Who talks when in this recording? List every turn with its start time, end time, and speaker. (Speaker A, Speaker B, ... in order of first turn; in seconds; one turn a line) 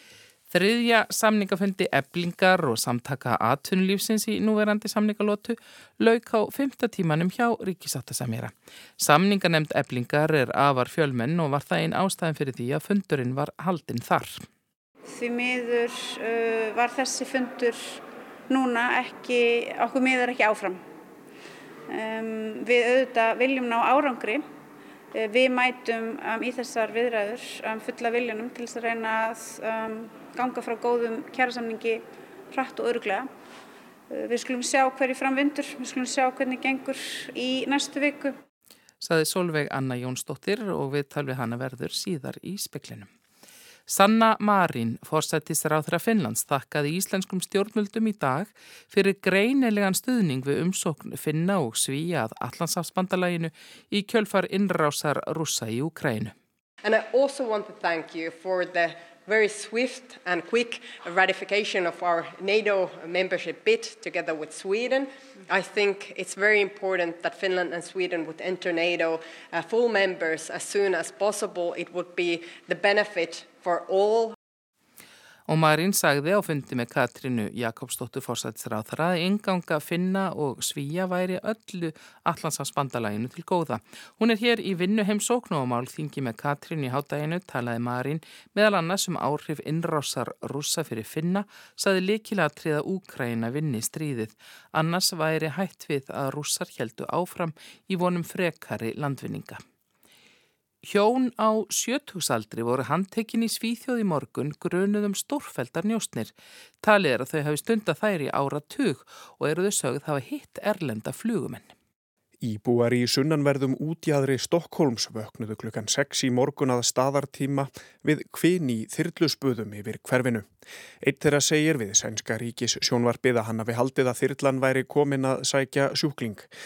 Speaker A: 0.5-14.4
Speaker B: 15.1-20.8
Speaker B: 21.9-24.4
Speaker B: 25.1-33.3
Speaker B: 34.1-38.4
Speaker A: 39.0-43.1
Speaker A: 43.9-56.3
Speaker C: 56.8-74.3
Speaker A: 75.5-99.6
Speaker A: 100.8-111.7
Speaker D: 112.4-120.5
Speaker D: 121.0-126.5